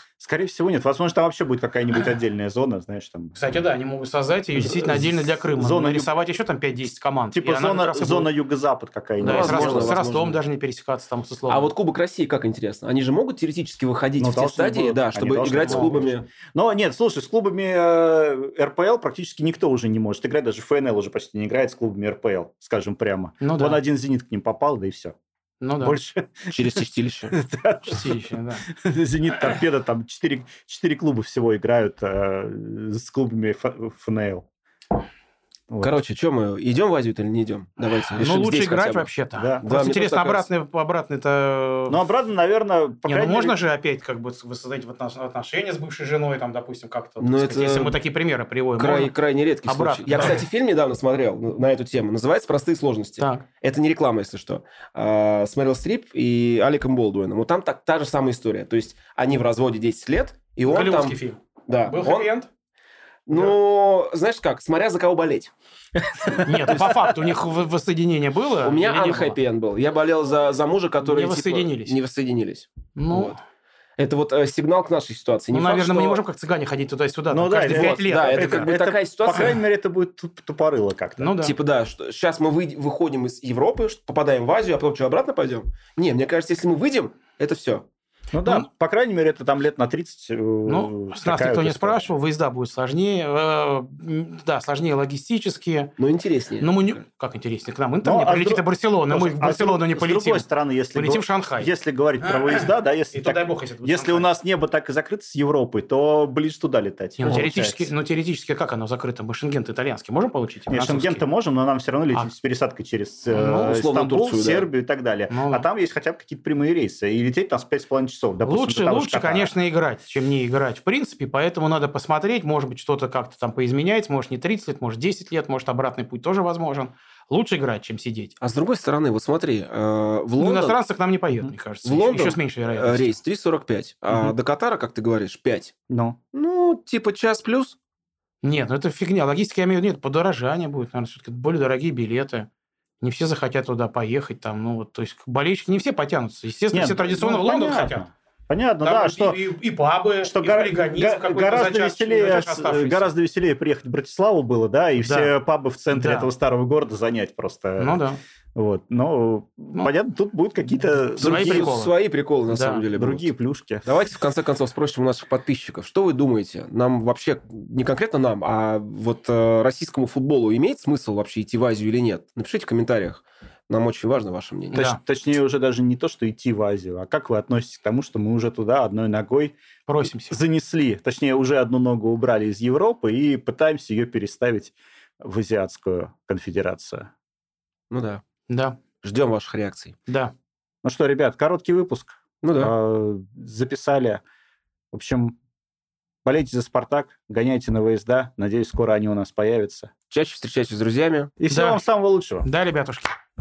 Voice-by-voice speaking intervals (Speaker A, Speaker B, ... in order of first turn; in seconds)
Speaker A: 0.2-3.4, 4.5-6.1, 7.3-9.9, 14.2-25.1, 25.8-26.8, 27.3-34.5, 35.7-36.0, 39.4-39.6, 41.9-43.6, 66.2-67.0, 77.3-81.3, 88.3-92.1, 98.0-107.9, 110.7-119.5, 135.9-136.2, 146.7-149.4, 150.2-158.0, 158.6-161.7, 162.9-163.9, 174.7-179.6, 180.3-187.1, 190.8-194.2, 194.9-195.3, 196.2-199.9, 201.4-202.5
Speaker B: 3.4-8.3, 9.2-11.7, 15.7-15.9, 23.4-23.8, 25.6-26.0, 27.8-28.7, 38.2-42.0, 43.0-50.4, 53.2-53.4, 60.7-62.5, 66.4-69.4, 71.0-72.0, 73.0-73.4, 75.5-78.7, 81.2-81.6, 90.7-95.9, 96.6-101.7, 102.2-104.3, 107.2-111.2, 113.3-113.8, 115.3-115.7, 118.4-128.3, 130.4-133.2, 138.4-142.5, 143.0-148.1, 148.8-153.1, 155.0-155.3, 155.9-156.3, 157.8-158.2, 161.1-162.0, 162.5-162.9, 174.7-175.0, 179.9-180.4, 188.5-188.8, 190.1-190.3, 201.5-201.8, 202.4-203.2
Speaker C: 9.2-10.4, 11.5-16.3, 26.5-27.3, 35.8-39.1, 39.6-40.5, 47.2-48.0, 48.8-62.3, 63.3-65.5, 66.3-66.8, 68.6-73.4, 74.0-76.2, 77.7-79.6, 81.4-87.8, 96.0-97.0, 113.6-114.7, 128.4-130.8, 131.8-135.7, 136.3-137.8, 161.2-163.3, 163.8-174.8, 187.9-188.2, 189.0-189.9, 192.4-192.7, 200.1-201.3